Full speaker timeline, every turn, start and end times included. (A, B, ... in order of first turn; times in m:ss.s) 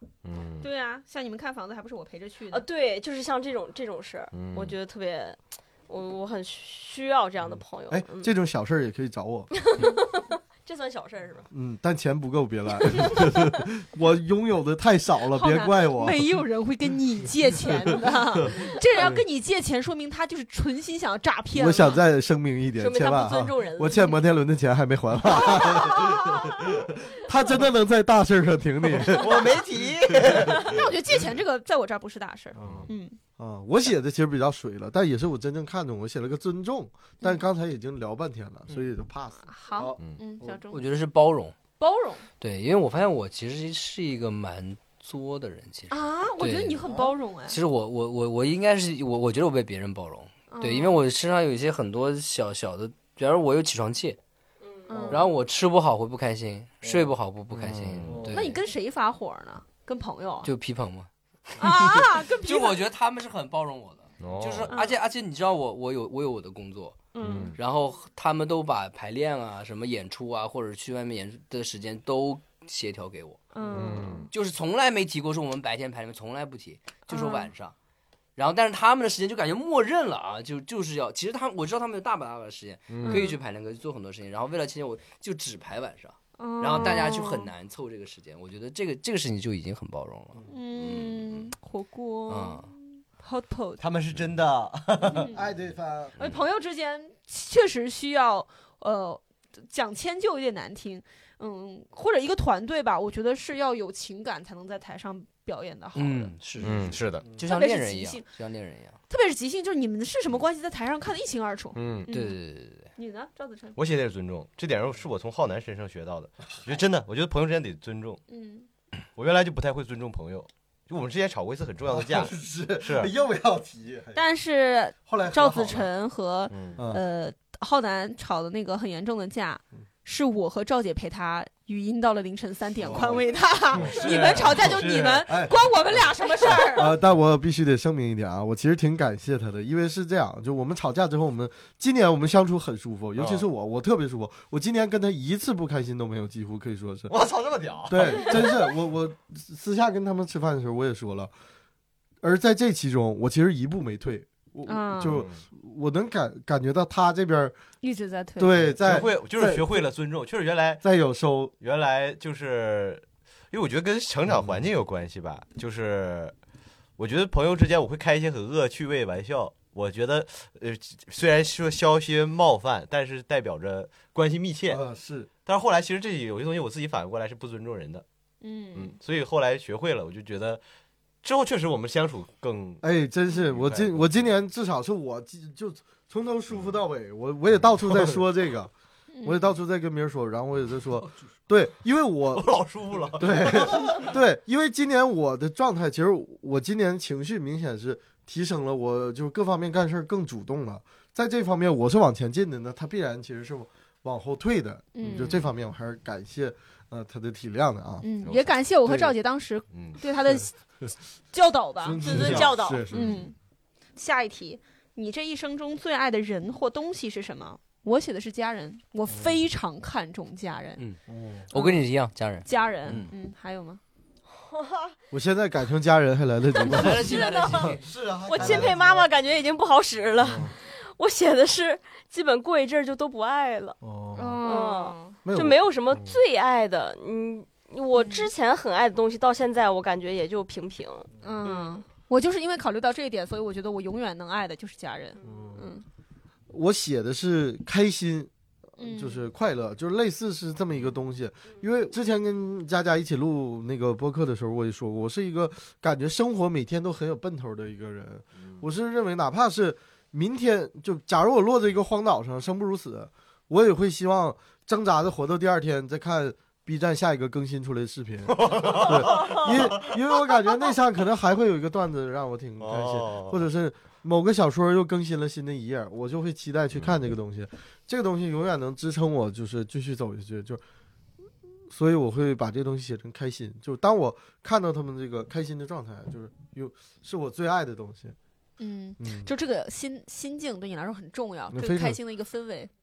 0:00.2-0:00.7 A
0:00.6-0:02.6 B
0:02.5-0:08.3 C
0:04.3-0:04.8 A
0:07.9-0:09.5 D
0:09.6-0:11.5 C
0:11.5-0:16.4 D
0:15.3-0:22.0 B
0:18.5-0:19.2 D
0:21.5-0:29.6 D
0:22.8-0:24.1 C
0:25.5-0:26.2 C
0:29.1-0:30.8 A
0:30.2-0:30.7 D
0:30.6-0:33.2 B
0:32.6-0:40.6 D
0:32.6-0:32.9 A
0:39.4-0:40.8 B
0:40.7-0:41.6 E
0:41.8-0:42.3 B
0:42.4-0:54.2 E
0:45.9-0:47.6 B
0:50.5-0:51.0 B
0:54.6-0:55.1 C
0:54.9-0:55.3 B
0:55.1-0:58.6 E
0:57.5-0:58.3 A
0:58.3-1:00.5 B
1:00.4-1:17.7 E
1:01.6-1:02.8 B
1:04.2-1:04.7 A
1:04.7-1:05.0 B
1:07.2-1:07.4 C
1:07.2-1:07.6 A
1:07.2-1:07.5 B
1:13.5-1:14.3 B
1:13.7-1:14.3 A
1:17.1-1:17.5 B
1:18.4-1:31.5 E
1:22.9-1:23.3 A
1:23.0-1:23.4 B
1:26.4-1:27.5 B
1:30.5-1:33.8 B
1:32.3-1:32.7 E
1:33.8-1:35.4 A
1:35.1-1:35.4 B
1:35.3-1:36.2 D
1:36.2-1:46.3 B
1:46.0-1:49.0 E
1:46.6-1:47.3 A
1:47.4-1:48.3 B
1:49.1-1:52.4 B
1:51.8-1:52.1 A
1:52.1-1:52.9 E
1:53.0-1:53.8 B
1:53.8-1:58.2 A
1:58.3-1:58.7 B
1:59.2-2:03.1 A
2:01.9-2:04.2 D
2:04.2-2:17.0 B
2:05.1-2:05.9 D
2:06.5-2:06.8 A
2:06.8-2:07.0 D
2:12.8-2:13.2 D
2:13.7-2:15.4 A
2:15.3-2:16.0 D
2:16.5-2:27.1 D
2:23.2-2:23.4 A
2:27.1-2:28.7 A
2:27.9-2:31.3 D
2:32.2-2:37.6 D
2:34.7-2:35.2 B
2:35.0-2:35.4 A
2:37.8-2:38.7 B
2:38.4-2:39.8 D
2:38.8-2:40.8 A
2:40.8-2:41.5 D
2:41.6-2:46.3 A
2:44.3-2:44.6 D
2:47.0-2:54.8 A
2:54.7-2:55.3 D
2:55.4-2:58.0 A
2:58.4-2:59.0 B
2:58.8-3:00.6 A
3:01.2-3:02.8 A
3:02.8-3:08.7 D
3:03.5-3:04.2 A
3:09.1-3:09.4 B
3:09.2-3:12.5 D
3:12.3-3:14.1 A
3:13.1-3:28.1 D
3:24.9-3:25.5 B
3:28.0-3:30.5 B
3:28.2-3:28.5 A
3:28.8-3:29.1 D
3:29.7-3:30.0 A
3:31.3-3:32.1 B
3:31.8-3:33.3 D
3:32.0-3:32.9 C
3:32.9-3:33.4 B
3:34.0-3:40.8 B
3:39.1-3:39.4 D
3:40.8-3:43.1 E
3:41.1-3:41.5 D
3:41.5-3:41.8 B
3:42.4-3:43.8 B
3:44.3-3:45.0 C
3:45.1-3:47.8 D
3:46.6-3:47.9 E
3:46.6-3:53.8 C
3:47.8-3:49.0 A
3:48.3-3:48.8 D
3:50.2-3:50.5 D
3:53.8-3:54.5 D
3:54.2-3:55.2 B
3:54.4-4:01.8 C
3:55.2-3:56.2 D
3:58.0-3:58.3 B
4:01.2-4:05.9 B
4:05.2-4:05.5 C
4:05.2-4:05.7 D
4:06.5-4:40.6 D
4:08.8-4:09.2 B
4:28.3-4:29.8 A
4:32.6-4:33.4 A
4:41.7-4:48.2 D
4:48.6-4:52.7 B
4:49.0-4:49.3 D
4:51.5-4:52.0 D